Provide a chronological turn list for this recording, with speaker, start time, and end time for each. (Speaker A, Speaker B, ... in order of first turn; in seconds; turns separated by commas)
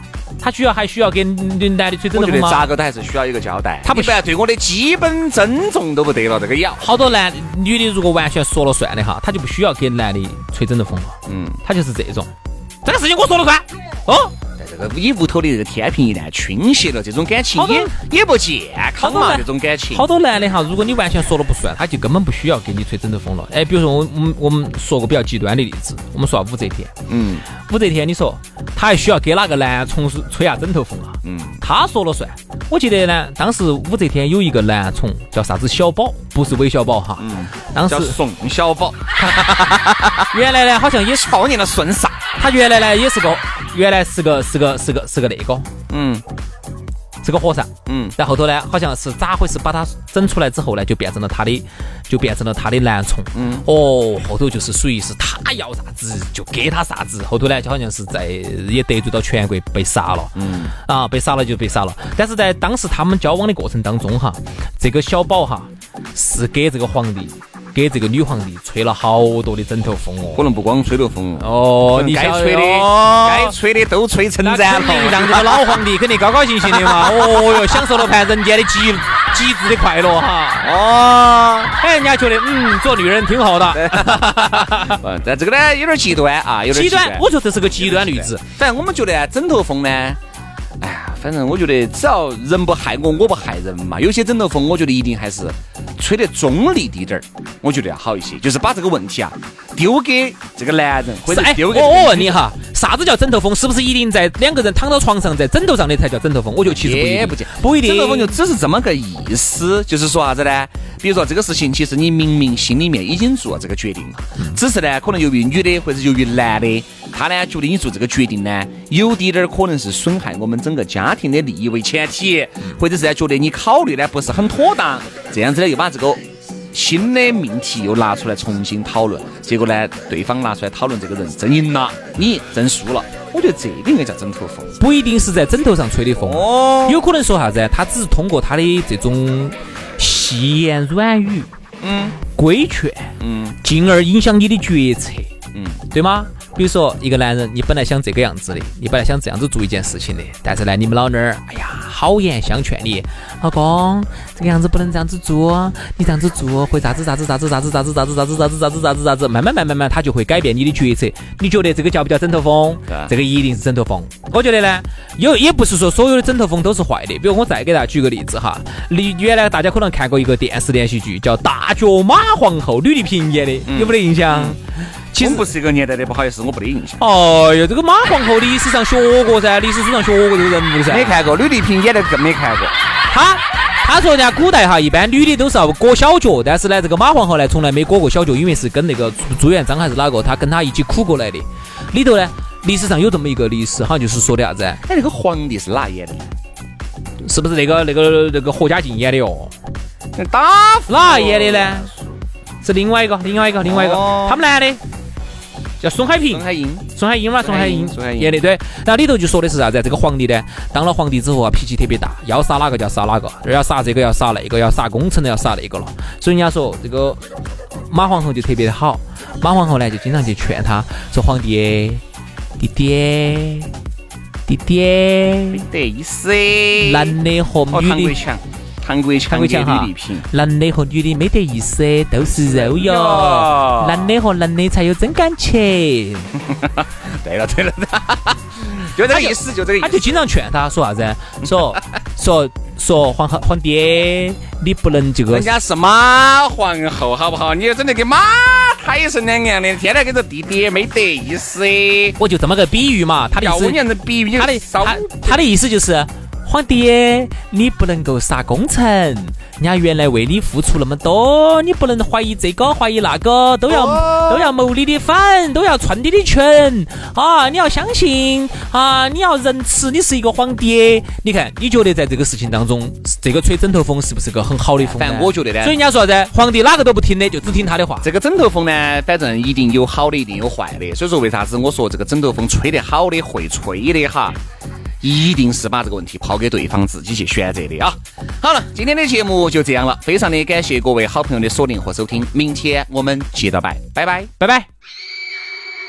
Speaker A: 0.4-2.7, Speaker B: 2.1-6.9, Speaker A: 3.8-4.2, Speaker A: 6.8-12.3, Speaker B: 11.3-11.6, Speaker A: 12.8-14.3, Speaker B: 14.6-20.1, Speaker A: 17.6-17.9, Speaker A: 19.0-27.0, Speaker B: 27.1-27.4, Speaker A: 27.6-38.2, Speaker B: 31.2-31.6, Speaker B: 37.2-40.3, Speaker A: 40.3-41.3, Speaker B: 41.1-42.2, Speaker A: 42.4-45.7, Speaker B: 45.9-46.2, Speaker A: 47.2-70.4, Speaker B: 47.9-48.1, Speaker B: 53.3-53.7, Speaker B: 60.4-60.7, Speaker B: 70.3-75.8, Speaker A: 71.4-73.5, Speaker A: 74.4-80.7, Speaker B: 76.6-78.0, Speaker B: 80.6-81.7, Speaker A: 81.8-85.0, Speaker B: 83.7-90.2, Speaker A: 86.7-88.4, Speaker B: 90.8-102.4, Speaker A: 101.3-108.4, Speaker B: 106.6-126.2, Speaker B: 126.7-134.8, Speaker A: 134.8-141.5, Speaker B: 136.2-137.0, Speaker B: 141.8-142.2, Speaker A: 142.3-145.3, Speaker B: 143.2-143.6, Speaker B: 145.5-145.8, Speaker A: 145.9-174.6, Speaker B: 162.9-163.1, Speaker B: 173.7-174.6, Speaker A: 175.1-175.5, Speaker B: 175.2-177.0, Speaker A: 177.0-181.2, Speaker B: 180.9-182.8, Speaker A: 183.1-194.8, Speaker B: 194.8-196.3, Speaker A: 197.2-199.5, Speaker B: 200.2-202.2, Speaker A: 200.9-201.9, Speaker A: 202.6-204.8, Speaker B: 203.6-204.4, Speaker A: 205.8-217.2, Speaker B: 206.3-206.8, Speaker B: 207.4-208.4, Speaker A: 217.9-222.0, Speaker A: 222.6-223.7, Speaker A: 224.5-225.6, Speaker B: 225.5-227.2, Speaker A: 226.8-228.2, Speaker B: 227.7-230.3, Speaker A: 229.3-236.3, Speaker B: 232.3-234.1, Speaker B: 236.4-240.2, Speaker A: 239.1-245.5, Speaker B: 241.4-241.8, Speaker B: 245.3-252.2, Speaker A: 252.2-253.8, Speaker B: 253.3-255.4, Speaker A: 254.3-278.1, Speaker B: 263.7-264.5, Speaker B: 274.8-275.7, Speaker B: 277.6-284.4, Speaker B: 285.0-294.3, Speaker A: 294.4-294.7